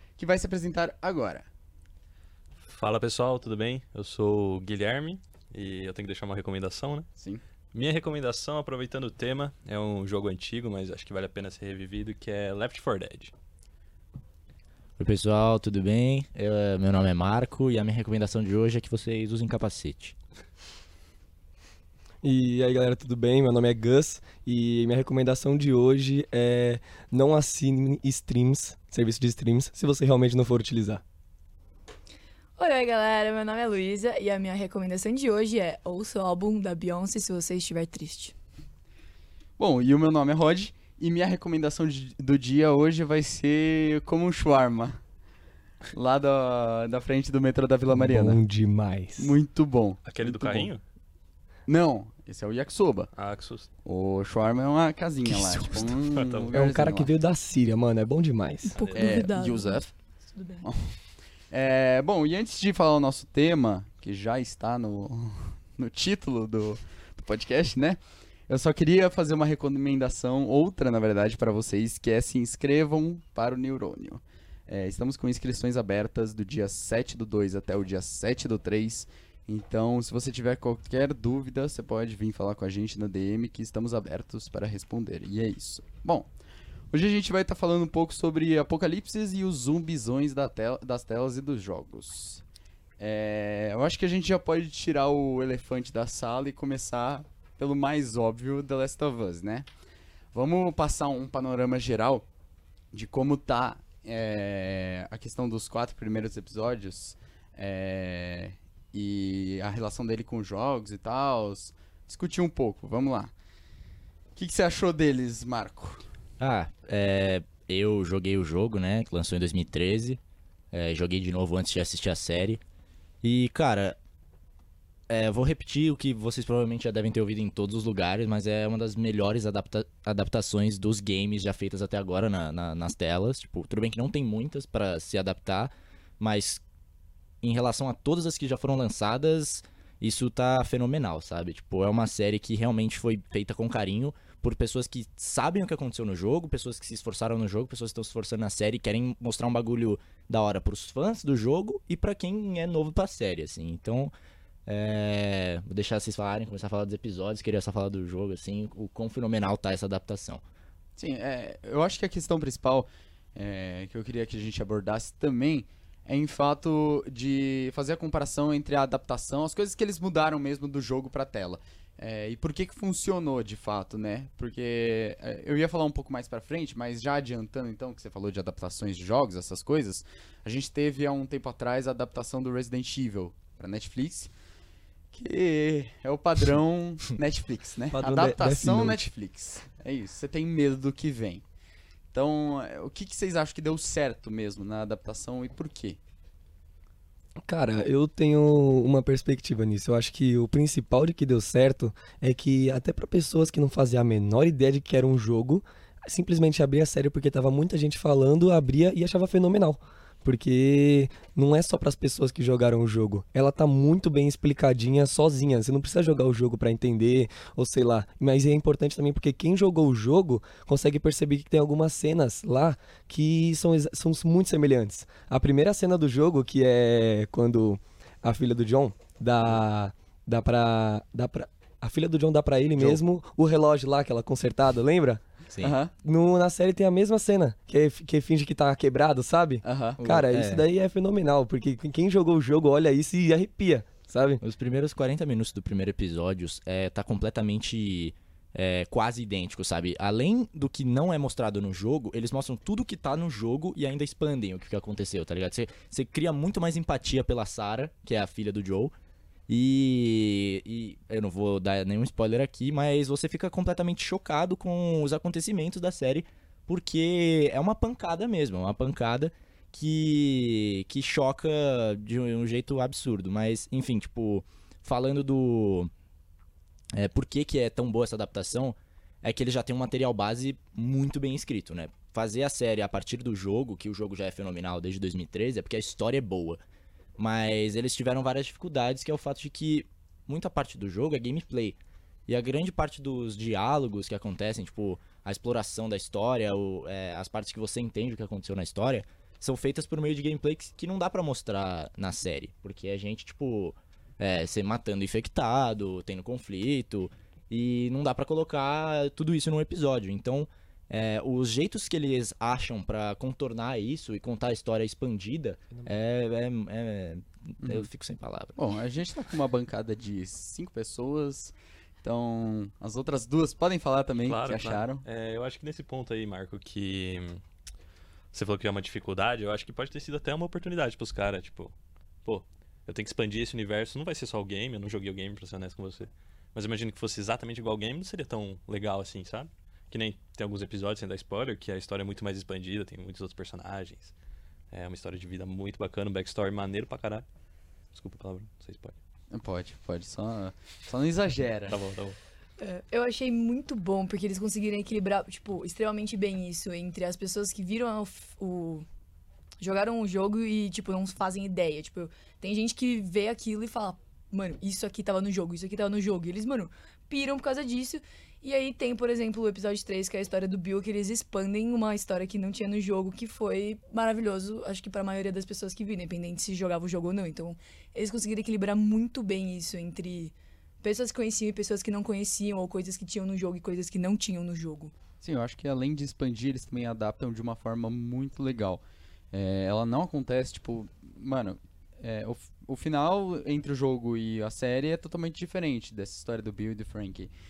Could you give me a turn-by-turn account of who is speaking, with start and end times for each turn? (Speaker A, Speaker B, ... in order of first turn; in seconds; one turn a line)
Speaker A: 0.2-1.5
Speaker B: 2.7-7.1
Speaker B: 7.7-13.3
Speaker C: 15.0-20.1
Speaker D: 22.2-31.0
Speaker E: 32.6-38.3
Speaker A: 39.6-45.0
Speaker A: 45.9-48.4
Speaker D: 47.9-49.4
Speaker A: 49.2-50.7
Speaker B: 50.0-50.8
Speaker A: 51.7-53.1
Speaker B: 53.2-53.7
Speaker A: 53.9-57.1
Speaker B: 55.9-56.5
Speaker D: 56.5-58.8
Speaker E: 58.6-60.7
Speaker B: 58.8-59.2
Speaker A: 58.9-59.9
Speaker A: 60.6-61.0
Speaker A: 61.5-86.3
Speaker A: 86.9-92.4
Speaker A: 93.0-99.7
Speaker A: 100.3-102.3
Speaker A: 102.9-113.3
Speaker A: 114.4-116.1
Speaker C: 116.4-120.2
Speaker C: 120.7-122.6
Speaker C: 123.2-124.0
Speaker C: 125.1-136.6
Speaker C: 137.4-154.1
Speaker C: 154.7-160.4
Speaker A: 161.0-184.3
Speaker A: 185.1-191.4
Speaker D: 187.9-189.1
Speaker A: 192.1-196.0
Speaker D: 197.4-235.2
Speaker C: 232.8-233.0
Speaker A: 235.6-235.9
Speaker D: 235.9-244.4
Speaker A: 239.6-240.1
Speaker C: 240.0-240.7
Speaker C: 244.4-258.9
Speaker C: 259.5-275.9
Speaker C: 276.9-286.6
Speaker C: 287.2-318.6
Speaker A: 317.6-317.9
Speaker A: 318.6-325.1
Speaker B: 324.2-327.4
Speaker B: 328.3-331.7
Speaker B: 332.2-344.1
Speaker B: 344.7-347.2
Speaker B: 347.9-349.0
Speaker A: 349.3-351.8
Speaker B: 351.7-352.2
Speaker E: 352.6-358.9
Speaker E: 359.6-384.9
Speaker A: 385.2-397.3